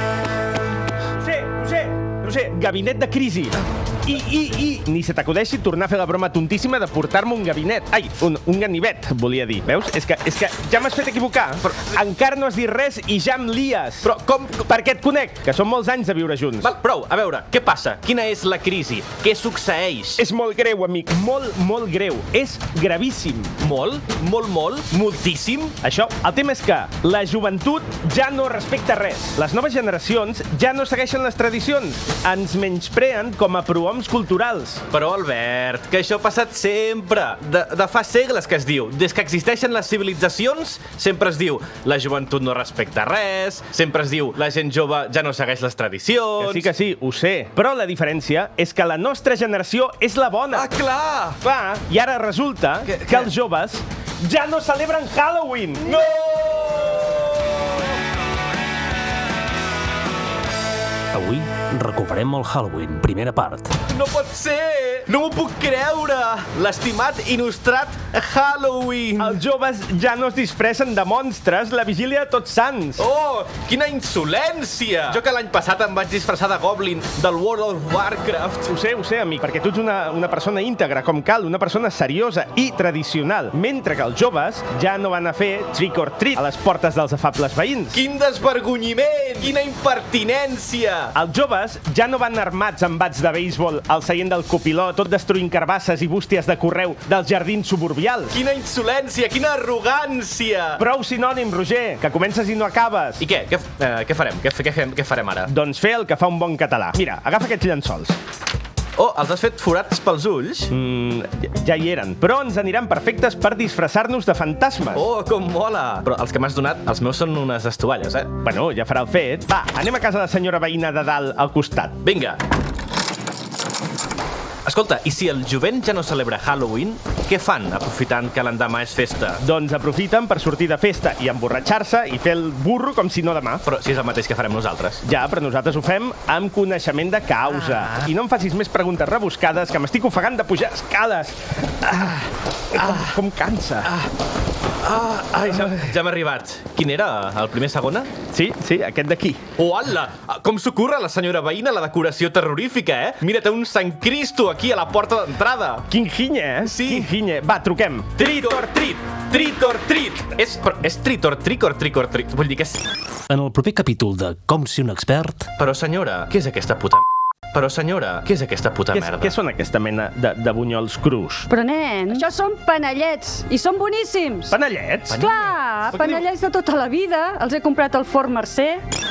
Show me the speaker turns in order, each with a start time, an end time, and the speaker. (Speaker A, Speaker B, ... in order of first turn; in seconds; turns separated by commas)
Speaker A: 1.2-14.1, Speaker B: 11.7-12.0, Speaker B: 14.0-14.7, Speaker A: 14.7-16.7, Speaker B: 16.6-20.2, Speaker A: 20.2-23.5, Speaker B: 23.6-25.8, Speaker A: 25.8-34.8, Speaker B: 34.9-46.7, Speaker A: 46.4-50.7, Speaker B: 50.5-51.4, Speaker A: 51.4-56.0, Speaker B: 52.9-53.3, Speaker B: 55.9-57.3, Speaker C: 61.1-63.7, Speaker B: 63.9-69.4, Speaker A: 69.2-73.1, Speaker B: 73.0-78.7, Speaker A: 78.7-88.0, Speaker B: 87.9-91.1, Speaker A: 91.1-98.4, Speaker B: 98.3-100.8, Speaker A: 100.8-103.2, Speaker B: 103.2-105.5, Speaker A: 105.5-108.2, Speaker B: 109.0-110.7, Speaker A: 110.7-115.1, Speaker B: 114.9-118.3, Speaker A: 118.4-122.0, Speaker B: 122.0-122.4, Speaker B: 124.7-129.4, Speaker A: 129.4-133.6, Speaker B: 133.7-135.0, Speaker A: 135.0-142.2, Speaker B: 137.7-138.0, Speaker A: 142.7-143.9, Speaker B: 142.8-143.2, Speaker B: 144.8-148.1, Speaker A: 148.3-149.4, Speaker B: 149.6-155.9, Speaker A: 155.9-158.7, Speaker B: 156.6-157.1, Speaker B: 158.2-162.8, Speaker C: 163.3-165.5, Speaker B: 165.6-169.3, Speaker A: 168.9-171.5, Speaker D: 171.5-174.6, Speaker A: 174.5-175.2, Speaker B: 175.1-176.2, Speaker D: 175.1-178.8